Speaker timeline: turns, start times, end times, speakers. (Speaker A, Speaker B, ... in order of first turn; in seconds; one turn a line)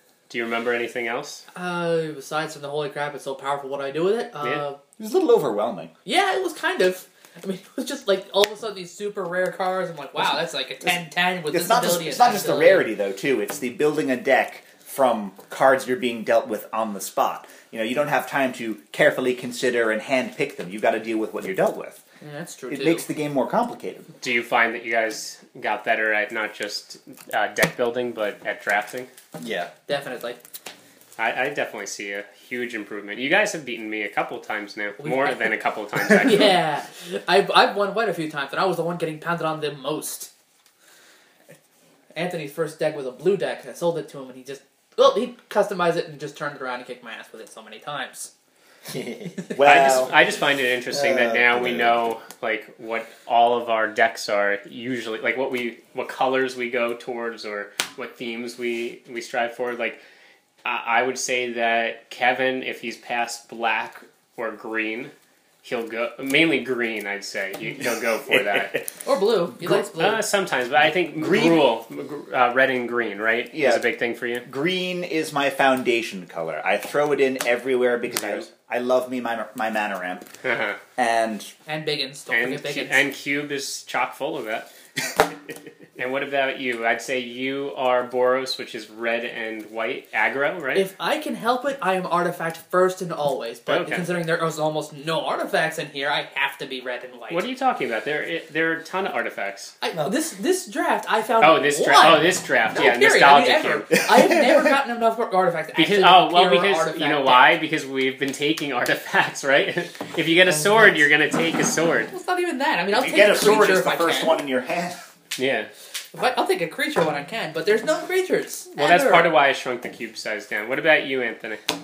Speaker A: 0.3-1.4
Speaker B: 1.5-4.8
Speaker C: 5.0-5.9
Speaker B: 6.0-12.9
Speaker C: 10.9-22.0
Speaker B: 22.2-23.1
Speaker C: 22.7-24.1
Speaker A: 24.2-29.1
Speaker D: 29.4-29.7
Speaker B: 29.9-30.4
Speaker A: 31.2-36.6
Speaker B: 35.0-40.3
Speaker B: 42.1-48.3
Speaker D: 48.9-49.6
Speaker C: 49.5-50.1
Speaker A: 49.6-60.0
Speaker D: 50.9-52.0
Speaker A: 60.6-68.8
Speaker C: 67.8-68.9
Speaker B: 69.0-70.2
Speaker A: 70.0-74.5
Speaker C: 71.2-71.7
Speaker C: 73.5-73.8
Speaker C: 74.4-80.3
Speaker A: 78.1-78.5
Speaker A: 80.4-80.8
Speaker C: 81.0-81.5
Speaker B: 81.7-83.0
Speaker A: 82.3-84.7
Speaker A: 86.0-90.9
Speaker B: 90.7-97.4
Speaker A: 93.7-94.2
Speaker A: 97.3-99.7
Speaker B: 99.8-107.6
Speaker A: 101.4-104.0
Speaker C: 104.1-104.6
Speaker A: 105.8-112.1
Speaker D: 110.5-111.0
Speaker B: 112.1-114.4
Speaker C: 112.9-115.0
Speaker A: 115.4-115.7
Speaker B: 116.1-119.3
Speaker A: 118.8-121.6